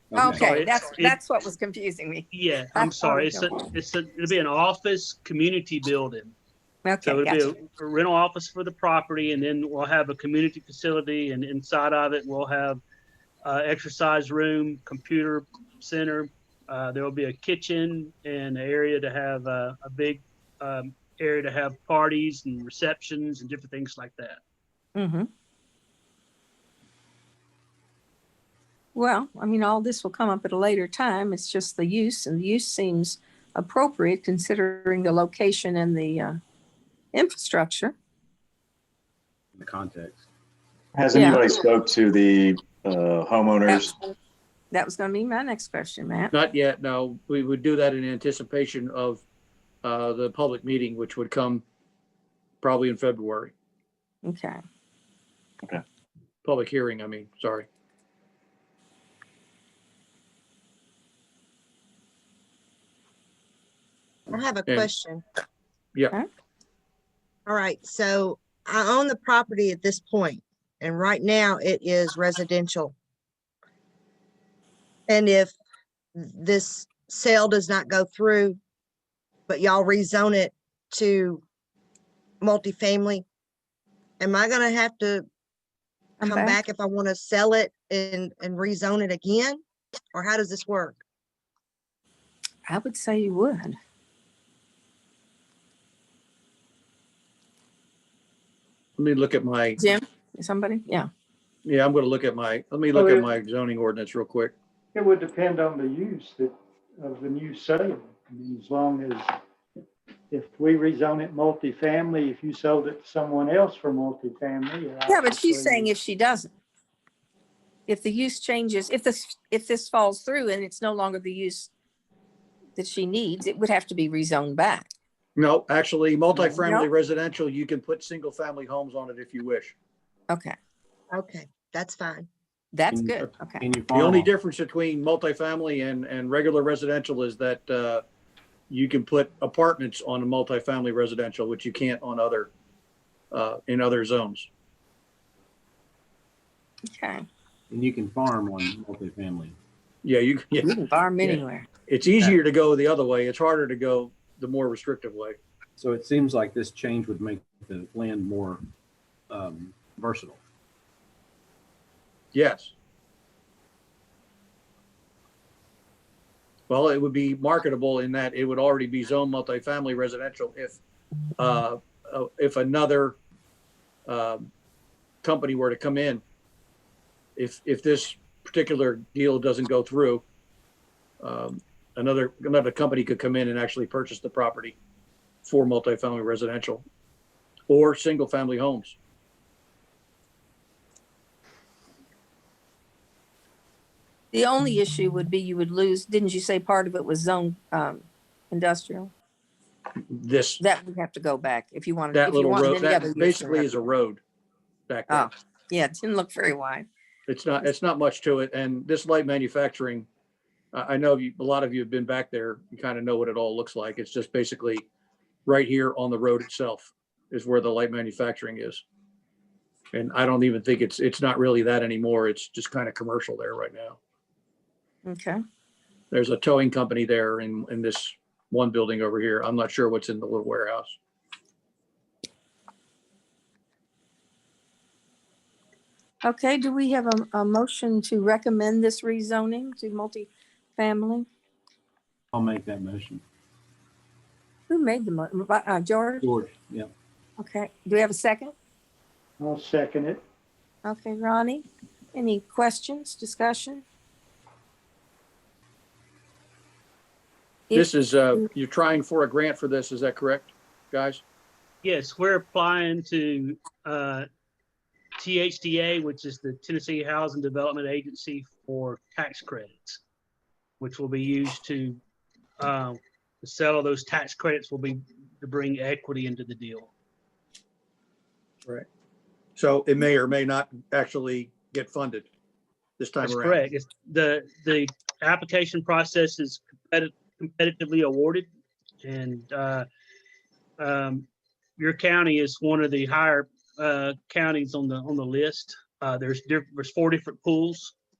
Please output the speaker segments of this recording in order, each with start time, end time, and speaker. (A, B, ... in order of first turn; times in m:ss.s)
0:00.1-0:00.7 A
0:00.2-0:03.5 B
0:00.3-0:01.2 C
0:02.3-0:06.3 C
0:06.8-0:07.5 B
0:07.0-0:12.8 C
0:13.4-0:24.4 C
0:24.9-0:25.3 B
0:28.9-0:36.4 B
0:37.1-0:37.9 B
0:39.5-0:40.2 A
0:40.9-0:44.0 D
0:41.1-0:41.4 B
0:44.7-0:46.3 B
0:46.3-0:49.2 E
0:49.8-0:51.6 E
0:52.6-0:53.5 E
0:54.2-0:54.6 B
0:56.4-0:57.7 E
1:04.3-1:05.2 F
1:04.7-1:04.9 E
1:07.4-1:12.9 F
1:15.1-1:15.5 F
1:16.1-1:18.6 F
1:19.5-1:21.4 F
1:22.4-1:23.2 F
1:24.2-1:25.3 F
1:26.2-1:26.6 B
1:26.2-1:29.6 F
1:30.1-1:31.0 F
1:32.7-1:33.8 B
1:39.0-1:39.8 E
1:39.8-1:41.1 B
1:41.6-1:44.5 E
1:42.9-1:43.2 G
1:44.9-1:49.3 G
1:50.3-1:55.9 G
1:55.0-1:56.5 B
1:57.9-2:01.7 B
2:02.8-2:04.9 B
2:05.4-2:09.7 E
2:06.6-2:06.9 B
2:10.3-2:10.6 B
2:11.1-2:12.3 F
2:12.7-2:13.6 B
2:12.9-2:14.3 A
2:13.9-2:18.0 E
2:18.7-2:22.5 E
2:23.3-2:24.5 E
2:26.9-2:27.2 B
2:27.7-2:29.6 A
2:30.0-2:35.4 E
2:30.6-2:31.7 B
2:35.8-2:38.6 A
2:39.3-2:40.4 A
2:42.3-2:42.7 E
2:46.7-2:50.8 E
2:51.4-2:53.2 E
2:54.1-2:54.5 E
2:55.2-2:56.2 E
2:57.4-3:00.2 E
3:01.2-3:04.8 E
3:05.4-3:06.8 E
3:07.7-3:09.0 E
3:14.3-3:19.1 B
3:20.0-3:20.6 E
3:20.6-3:23.9 B
3:22.1-3:24.2 E
3:24.9-3:25.3 E
3:25.1-3:26.9 B
3:27.3-3:30.1 E
3:30.7-3:34.8 E
3:35.4-3:38.8 E
3:39.9-3:44.0 E
3:45.0-3:45.4 B
3:46.1-3:51.0 E
3:56.2-4:01.3 B
4:02.3-4:03.2 A
4:04.7-4:06.3 B
4:06.2-4:06.9 A
4:07.4-4:08.5 B
4:09.4-4:10.2 G
4:10.8-4:13.8 B
4:17.7-4:18.4 B
4:17.7-4:21.2 E
4:21.8-4:24.2 C
4:25.2-4:30.0 C
4:30.8-4:32.0 C
4:32.6-4:36.9 C
4:39.6-4:42.3 E
4:43.0-4:43.6 E
4:43.2-4:48.5 C
4:49.0-4:49.8 C
4:50.8-4:51.3 C
4:51.8-4:57.9 C